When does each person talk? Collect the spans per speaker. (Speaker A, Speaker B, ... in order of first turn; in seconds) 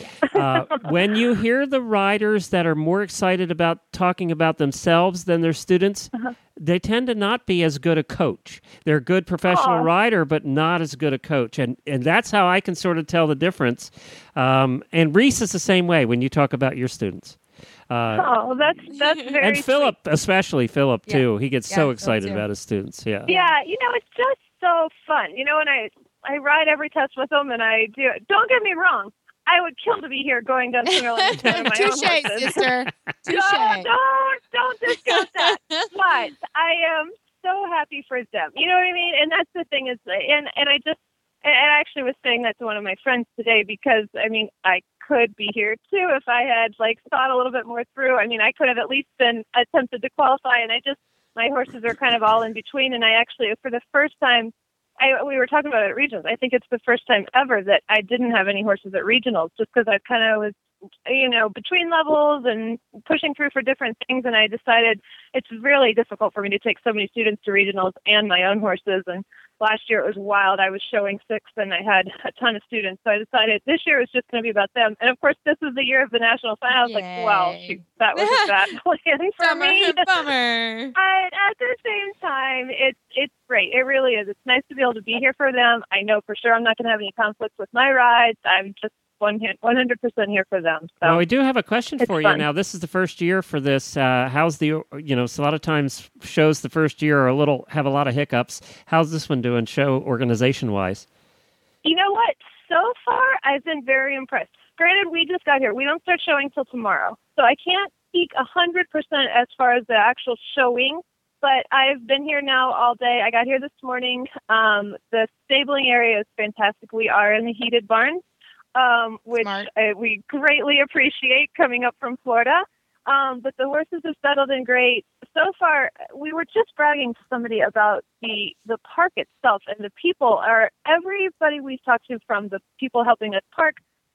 Speaker A: 0.2-17.4, 17.9-18.3, 19.4-23.3, 31.4-32.1, 91.0-101.0
Speaker B: 9.5-9.9, 18.1-19.9, 23.3-32.7, 33.3-80.1, 80.9-91.2, 92.0-92.4, 101.8-118.2, 118.7-133.8
Speaker C: 21.1-22.4, 23.3-23.5, 30.9-33.9, 35.0-35.9, 76.8-78.7, 79.4-80.9, 119.3-119.7